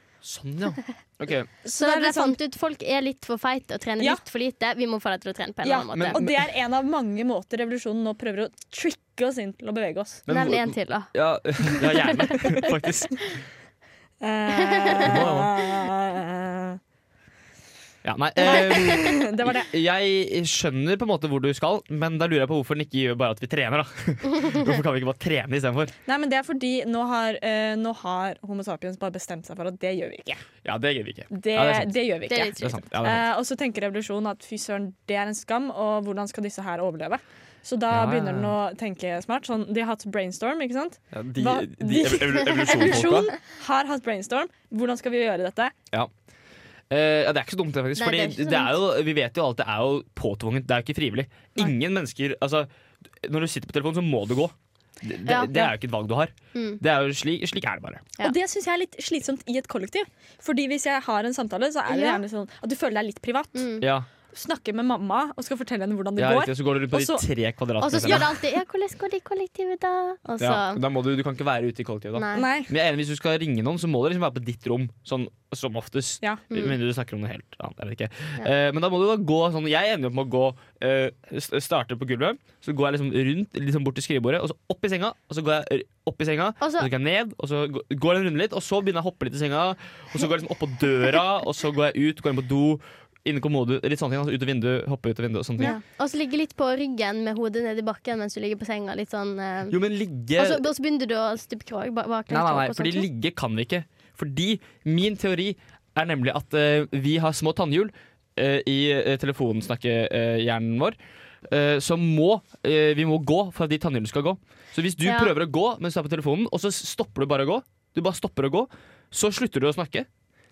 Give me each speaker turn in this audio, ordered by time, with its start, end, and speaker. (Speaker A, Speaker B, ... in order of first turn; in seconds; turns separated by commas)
Speaker A: 0.2-1.5, Speaker B: 1.6-2.4, Speaker C: 1.7-6.2, Speaker B: 5.6-10.2, Speaker A: 5.9-6.4, Speaker A: 10.2-13.3, Speaker C: 10.3-11.1, Speaker C: 11.7-12.6, Speaker B: 14.2-16.8, Speaker C: 14.6-15.1, Speaker A: 15.0-15.5, Speaker A: 18.0-25.9, Speaker B: 18.4-19.7, Speaker B: 26.1-30.4, Speaker A: 30.6-33.3, Speaker B: 31.3-45.7, Speaker C: 32.3-32.7, Speaker A: 37.9-38.5, Speaker A: 41.1-43.3, Speaker A: 46.9-52.7, Speaker C: 48.0-48.8, Speaker A: 53.2-58.1, Speaker C: 55.2-55.5, Speaker C: 56.5-56.8, Speaker B: 58.2-63.6, Speaker C: 61.9-62.2, Speaker C: 63.5-63.9, Speaker A: 63.8-64.1, Speaker B: 64.3-67.3, Speaker A: 66.2-68.3, Speaker C: 67.8-70.8, Speaker A: 70.4-95.8, Speaker C: 72.1-72.5, Speaker B: 72.3-72.7, Speaker C: 76.5-76.7, Speaker C: 86.6-86.9, Speaker C: 95.6-99.8, Speaker A: 99.7-100.7, Speaker C: 100.3-103.0, Speaker A: 102.3-120.1, Speaker C: 115.0-115.3